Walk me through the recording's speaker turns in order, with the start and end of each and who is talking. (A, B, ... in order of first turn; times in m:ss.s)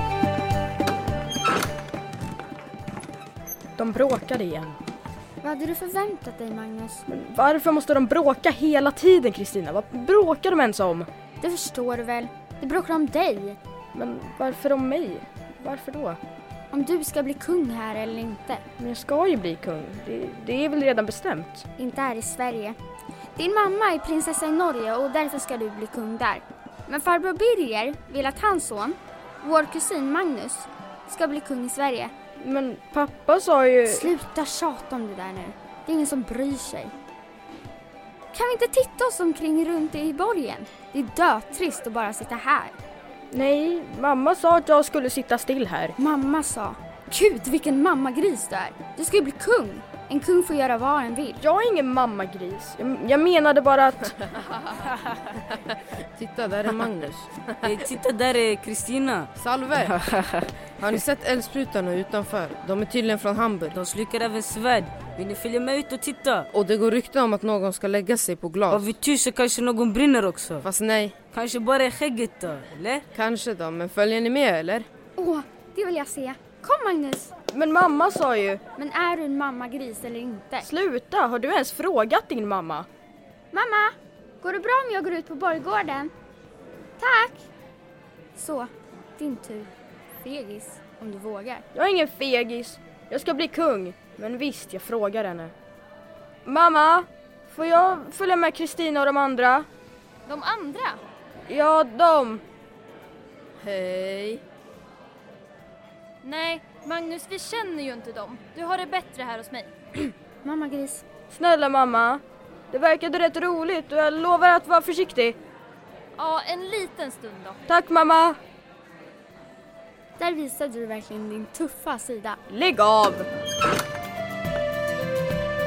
0:03.8-0:04.8 A
0:05.4-0:07.0 B
0:07.1-0:11.1 A
0:11.4-0:13.6 B
0:13.9-0:16.2 A
0:16.7-0:18.6 B
0:18.8-0:21.6 A
0:21.8-0:22.8 B
0:23.4-0:32.1 B
0:32.4-0:34.1 A
0:33.9-0:36.9 B
0:38.3-0:42.8 B
0:43.3-0:46.0 A
0:46.0-0:51.4 B
0:51.4-0:54.2 A
0:55.8-0:57.7 C
0:57.6-1:00.5 D
0:59.3-1:00.0 C
1:00.8-1:03.8 C
1:03.7-1:06.5 D
1:06.5-1:08.9 C
1:08.7-1:10.6 D
1:10.6-1:11.2 C
1:11.3-1:13.0 D
1:13.1-1:14.9 C
1:15.2-1:17.3 B
1:17.5-1:18.6 A
1:18.8-1:20.7 B
1:20.6-1:22.9 A
1:23.5-1:26.1 B
1:27.0-1:27.4 B
1:28.3-1:29.7 B
1:30.2-1:31.6 B
1:31.7-1:35.5 A
1:36.4-1:39.7 A
1:40.3-1:41.0 E
1:41.5-1:42.4 A
1:43.6-1:44.4 C
1:46.2-1:49.7 E
1:50.4-1:51.0 B
1:51.3-1:55.4 A
1:56.2-1:57.6 E
1:57.7-1:58.4 A
2:00.2-2:02.4 B
2:02.5-2:03.3 A